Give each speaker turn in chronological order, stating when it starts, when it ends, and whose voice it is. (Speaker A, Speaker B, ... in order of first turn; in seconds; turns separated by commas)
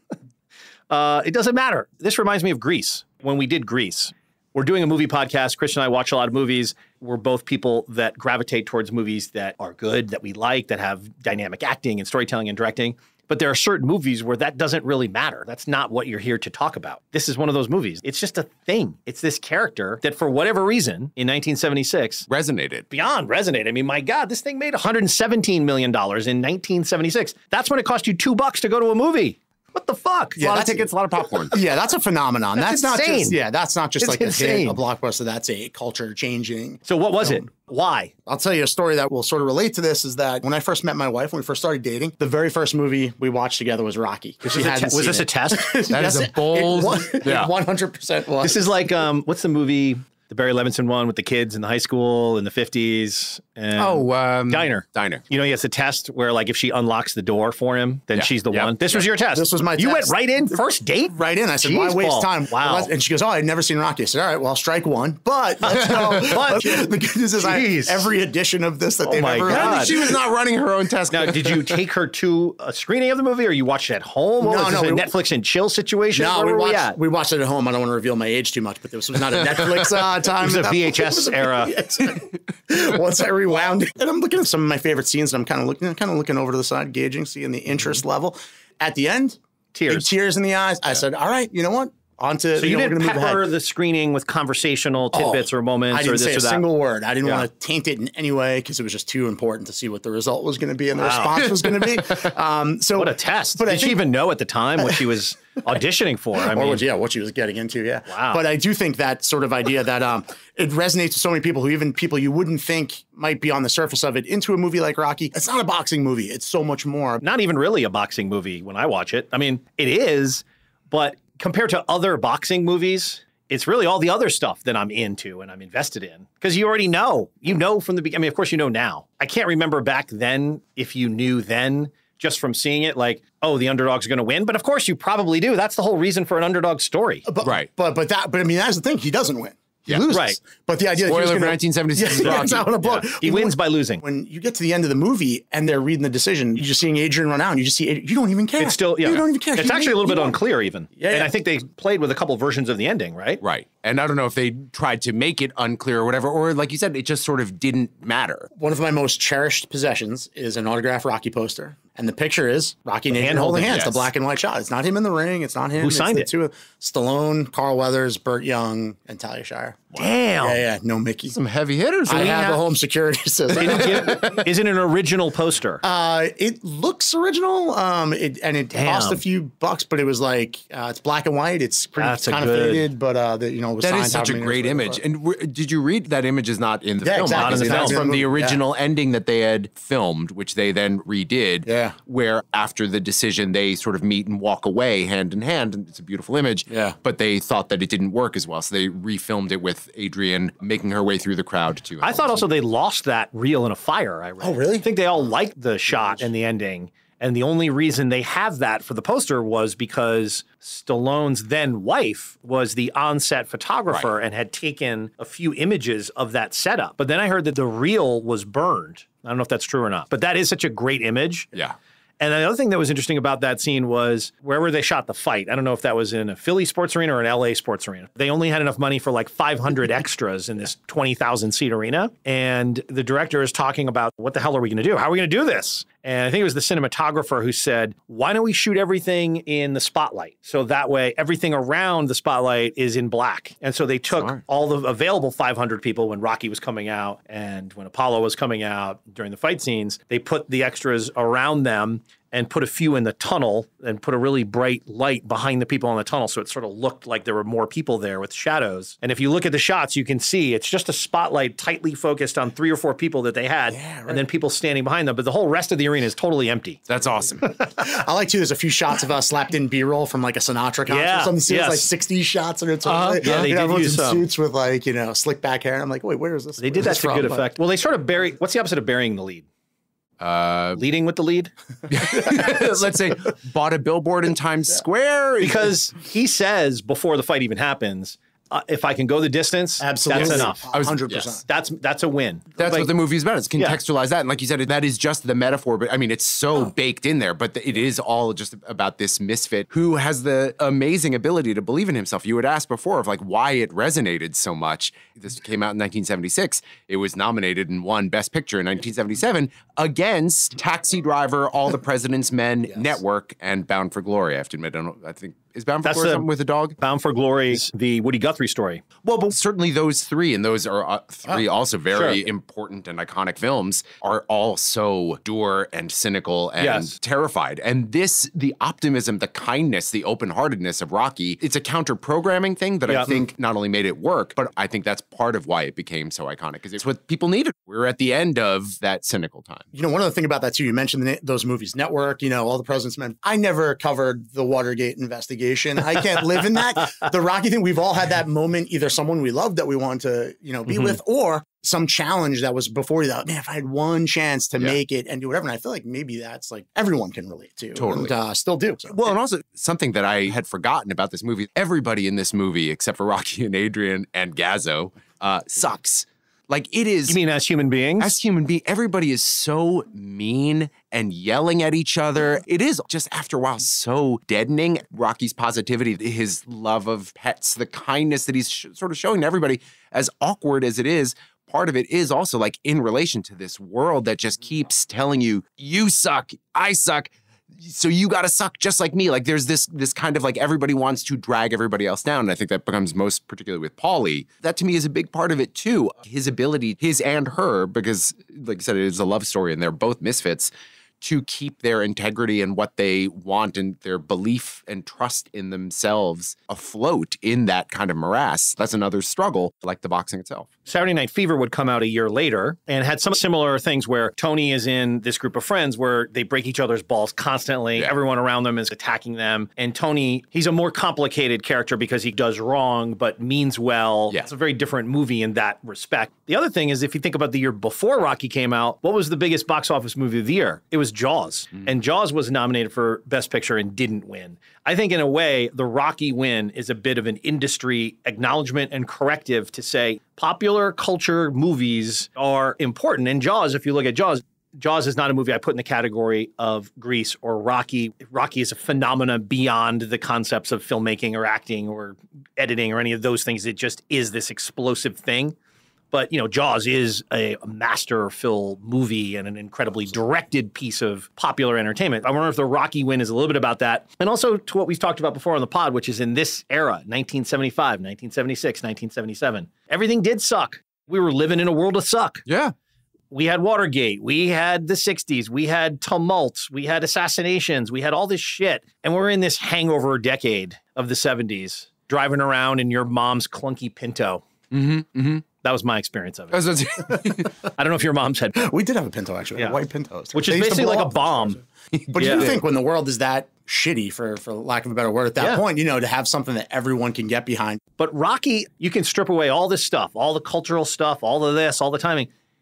Speaker A: 0.9-22.3, Speaker B: 22.3-22.9, Speaker A: 22.9-30.8, Speaker C: 30.4-30.8, Speaker B: 30.4-31.6, Speaker C: 31.5-37.5, Speaker A: 32.6-33.4, Speaker A: 34.0-34.8, Speaker A: 36.9-38.1, Speaker C: 38.3-48.7, Speaker A: 44.5-45.7, Speaker B: 45.9-47.5, Speaker A: 48.4-62.9, Speaker B: 53.8-55.2, Speaker B: 58.1-59.0, Speaker C: 59.3-60.2, Speaker C: 61.1-70.2, Speaker B: 65.8-66.4, Speaker A: 66.3-66.7, Speaker A: 67.4-68.1, Speaker A: 69.0-69.9, Speaker B: 69.5-71.7, Speaker A: 71.1-77.0, Speaker C: 74.4-75.1, Speaker C: 76.1-93.4, Speaker B: 79.4-80.0, Speaker A: 80.4-81.7, Speaker A: 89.7-90.1, Speaker A: 92.6-96.6, Speaker C: 95.1-104.0, Speaker A: 101.0-101.4, Speaker B: 101.4-102.3, Speaker A: 103.0-106.8, Speaker C: 106.4-117.2, Speaker A: 108.1-108.4, Speaker A: 117.2-137.2, Speaker C: 137.3-150.4, Speaker B: 137.4-137.7, Speaker A: 140.1-140.4, Speaker B: 141.0-142.7, Speaker A: 142.2-144.0, Speaker A: 148.6-153.4, Speaker C: 151.0-151.3, Speaker B: 153.4-158.5, Speaker C: 158.6-169.9, Speaker A: 163.1-163.9, Speaker B: 163.7-164.1, Speaker A: 165.8-166.3, Speaker A: 169.9-170.6, Speaker C: 170.4-171.4, Speaker B: 171.3-172.6, Speaker C: 172.1-174.3, Speaker A: 172.1-172.6, Speaker A: 173.5-175.8, Speaker B: 173.6-174.0, Speaker C: 175.8-185.0, Speaker A: 178.7-179.2, Speaker A: 182.0-182.9, Speaker B: 183.8-202.5, Speaker C: 187.0-188.6, Speaker A: 187.3-188.0, Speaker C: 191.7-191.9, Speaker C: 196.7-196.9, Speaker A: 202.0-221.5, Speaker C: 204.4-204.9, Speaker C: 205.9-206.3, Speaker A: 222.2-266.8, Speaker B: 244.1-244.4, Speaker C: 263.7-264.2, Speaker B: 266.9-267.4, Speaker C: 267.8-277.5, Speaker A: 270.9-271.9, Speaker A: 272.9-274.3, Speaker B: 272.9-273.5, Speaker A: 276.6-279.5, Speaker B: 280.2-280.8, Speaker A: 280.8-281.5, Speaker B: 281.9-285.8, Speaker C: 282.3-282.7, Speaker A: 285.4-290.6, Speaker C: 289.8-291.4, Speaker B: 290.1-291.4, Speaker A: 291.5-292.9, Speaker B: 292.6-316.8, Speaker A: 315.9-316.3, Speaker A: 316.8-318.8, Speaker B: 319.0-339.7, Speaker A: 321.9-322.2, Speaker A: 326.6-326.9, Speaker A: 332.9-333.1, Speaker C: 339.7-359.0, Speaker A: 350.7-351.0, Speaker B: 357.8-358.2, Speaker B: 358.9-367.2, Speaker A: 367.1-368.1, Speaker B: 368.0-410.5, Speaker A: 410.7-455.4, Speaker A: 455.9-472.2, Speaker B: 472.3-472.5, Speaker A: 473.1-484.2, Speaker B: 484.5-485.2, Speaker A: 485.4-486.4, Speaker B: 486.3-487.3, Speaker A: 487.6-488.5, Speaker C: 488.4-491.4, Speaker A: 490.1-491.4, Speaker B: 491.7-492.3, Speaker C: 491.9-497.6, Speaker A: 492.0-492.4, Speaker A: 497.8-502.1